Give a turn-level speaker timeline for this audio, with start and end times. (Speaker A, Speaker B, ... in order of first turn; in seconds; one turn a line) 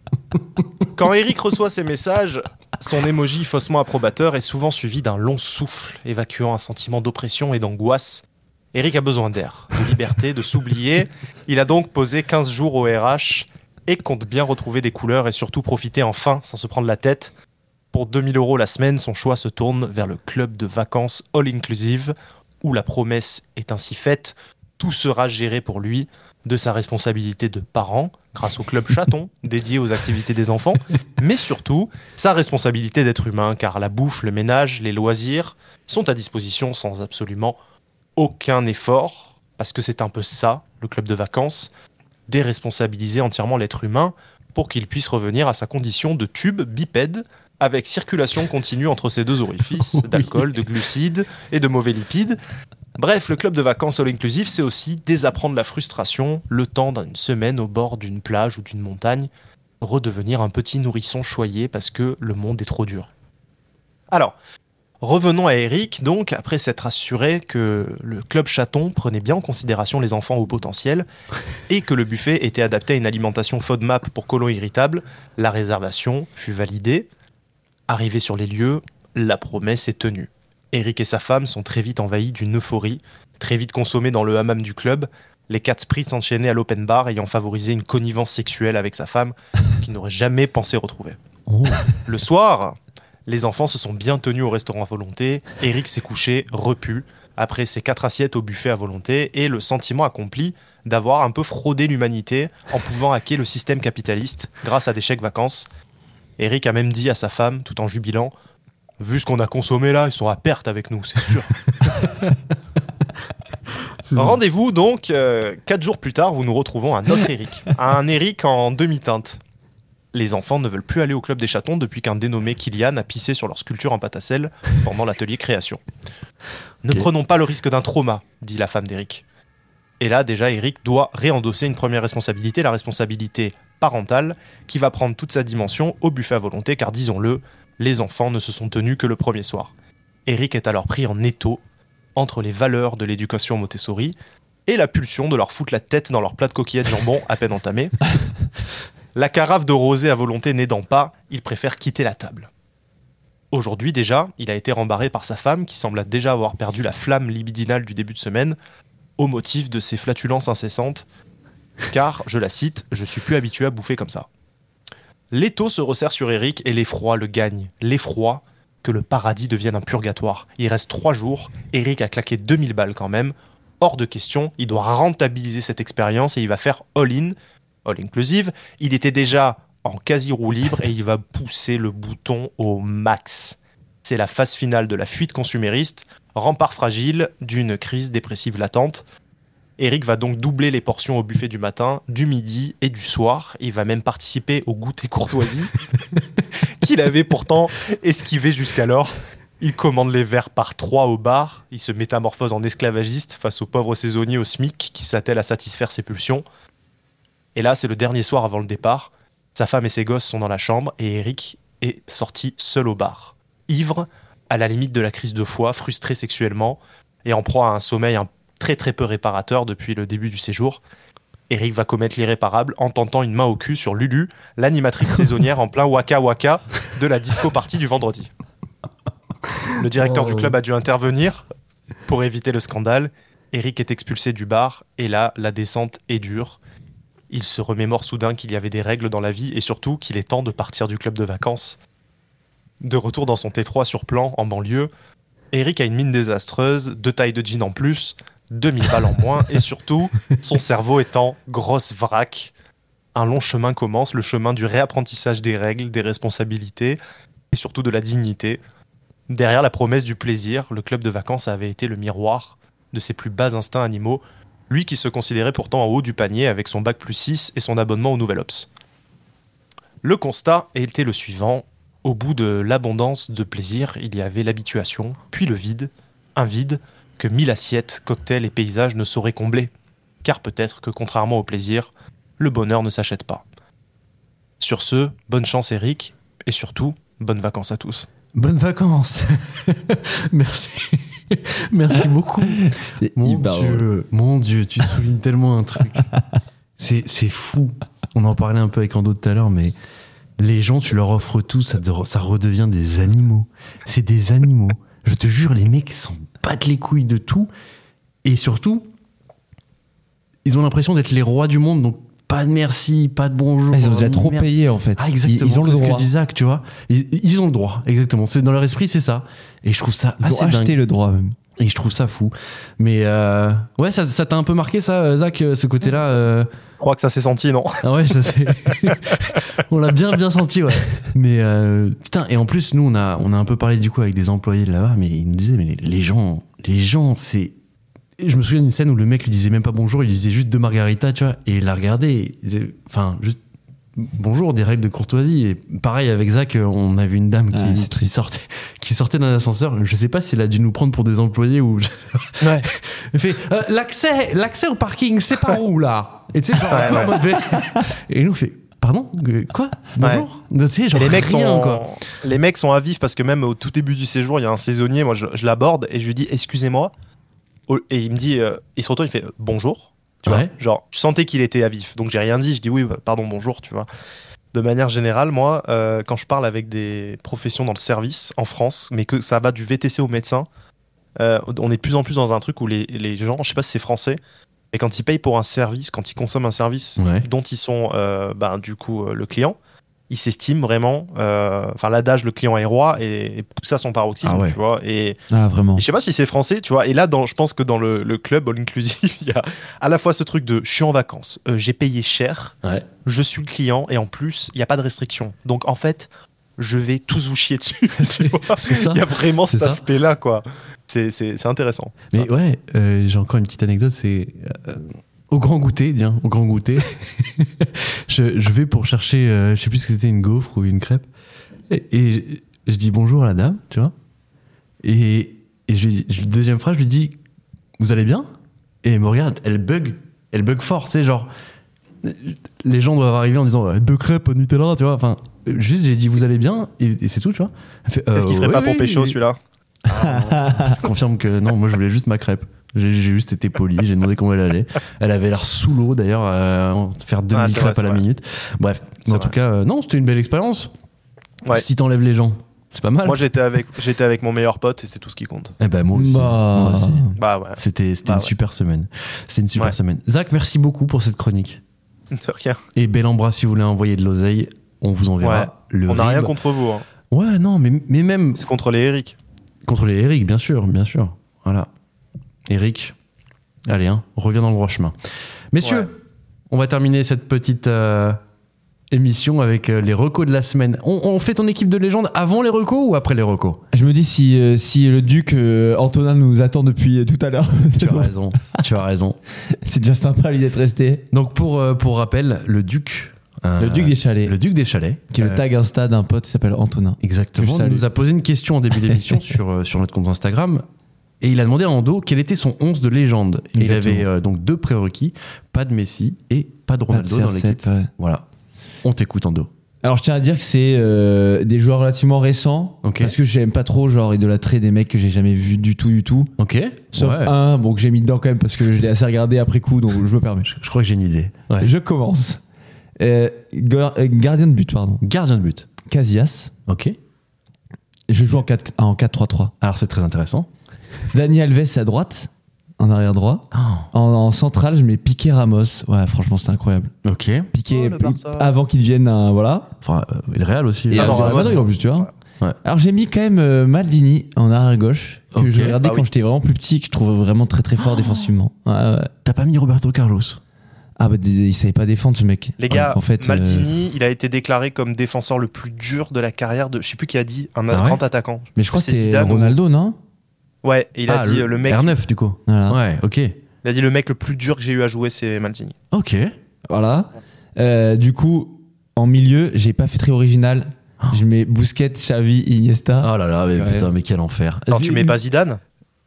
Speaker A: 0.9-17.3
Speaker A: 17.9-37.6
Speaker A: 38.2-41.7
Speaker A: 42.3-52.4
Speaker B: 49.9-50.5
Speaker A: 53.0-59.3
Speaker A: 59.8-63.1
Speaker A: 65.0-71.1
Speaker A: 71.7-77.1
Speaker A: 77.9-91.2
Speaker B: 91.5-91.9
Speaker A: 91.8-105.7
Speaker A: 106.4-108.3
Speaker A: 109.0-111.6
Speaker B: 111.8-112.4
Speaker B: 114.0-114.4
Speaker A: 114.2-119.4
Speaker A: 120.1-125.8
Speaker A: 126.8-129.2
Speaker A: 130.0-139.7
Speaker A: 140.3-141.6
Speaker A: 142.2-144.2
Speaker A: 144.7-148.0
Speaker A: 149.2-152.5
Speaker A: 153.5-158.6
Speaker A: 159.2-161.1
Speaker A: 161.9-164.3
Speaker A: 165.3-189.0
Speaker A: 189.8-195.7
Speaker A: 196.8-206.4
Speaker A: 207.6-220.8
Speaker A: 221.5-228.3
Speaker A: 229.7-231.4
Speaker A: 232.1-236.6
Speaker A: 237.3-241.8
Speaker A: 242.8-244.9
Speaker A: 245.5-252.5
Speaker A: 253.2-257.0
Speaker A: 257.5-258.6
Speaker A: 259.3-268.7
Speaker A: 270.0-279.7
Speaker A: 280.2-283.4
Speaker A: 284.6-288.1
Speaker B: 288.3-296.1
Speaker C: 292.4-293.9
Speaker B: 296.8-299.8
Speaker B: 300.4-307.5
Speaker B: 308.2-308.9
Speaker B: 310.4-320.8
Speaker C: 313.7-316.1
Speaker C: 320.2-321.4
Speaker B: 321.6-326.5
Speaker A: 326.8-327.8
Speaker B: 327.8-337.5
Speaker B: 338.2-343.4
Speaker B: 344.0-361.9
Speaker C: 347.5-348.1
Speaker A: 352.4-352.7
Speaker A: 356.7-357.1
Speaker A: 360.0-360.3
Speaker A: 360.9-366.9
Speaker A: 367.7-373.9
Speaker B: 370.2-370.5
Speaker A: 374.5-380.5
Speaker A: 381.2-384.2
Speaker A: 384.7-389.6
Speaker B: 387.0-387.3
Speaker A: 390.1-395.2
Speaker B: 394.2-394.6
Speaker C: 395.3-395.9
Speaker A: 395.8-412.5
Speaker B: 408.0-409.8
Speaker B: 412.1-421.1
Speaker B: 421.7-423.9
Speaker B: 424.8-427.2
Speaker B: 427.8-428.3
Speaker B: 428.8-431.3
Speaker B: 432.0-439.2
Speaker A: 438.1-439.4
Speaker A: 439.9-440.4
Speaker C: 440.0-440.8
Speaker B: 440.6-450.7
Speaker A: 447.3-448.0
Speaker A: 449.1-449.3
Speaker B: 451.5-453.2
Speaker A: 453.1-455.6
Speaker B: 455.6-461.6
Speaker C: 455.9-457.2
Speaker A: 457.2-458.3
Speaker A: 462.1-462.6
Speaker B: 462.8-466.3
Speaker A: 465.2-466.9
Speaker B: 467.1-468.4
Speaker A: 468.4-469.2
Speaker B: 469.7-471.7
Speaker B: 472.5-472.9
Speaker B: 473.7-474.9
Speaker B: 475.5-475.9
Speaker A: 475.6-475.9
Speaker B: 476.5-478.2
Speaker B: 478.9-483.6
Speaker C: 483.7-488.6
Speaker B: 487.8-489.2
Speaker C: 489.5-491.1
Speaker B: 491.1-495.4
Speaker C: 493.6-494.4
Speaker C: 495.1-497.9
Speaker B: 497.0-500.6
Speaker C: 498.8-499.4
Speaker B: 501.2-508.2
Speaker C: 503.6-504.1
Speaker C: 506.9-507.9
Speaker B: 508.8-509.5
Speaker C: 509.8-516.3
Speaker B: 512.8-513.2
Speaker B: 516.4-517.3
Speaker C: 516.9-520.5
Speaker B: 520.5-521.7
Speaker C: 521.6-522.4
Speaker C: 523.0-525.0
Speaker B: 525.0-525.7
Speaker C: 525.9-526.5
Speaker B: 526.7-527.0
Speaker C: 528.1-529.5
Speaker B: 529.6-530.5
Speaker C: 531.1-536.9
Speaker B: 533.5-533.9
Speaker B: 537.0-537.5
Speaker C: 537.5-539.7
Speaker A: 537.7-538.5
Speaker B: 539.8-541.6
Speaker C: 540.9-542.1
Speaker A: 540.9-542.1
Speaker C: 542.6-549.1
Speaker B: 545.3-545.8
Speaker A: 545.8-546.1
Speaker B: 549.2-550.4
Speaker C: 551.0-553.7
Speaker A: 552.6-559.6
Speaker B: 557.7-558.0
Speaker C: 558.6-560.0
Speaker A: 560.6-562.0
Speaker B: 561.1-563.4
Speaker C: 562.5-562.8
Speaker A: 563.6-565.8
Speaker B: 565.9-566.3
Speaker C: 566.7-573.9
Speaker B: 573.0-575.2
Speaker A: 574.7-575.6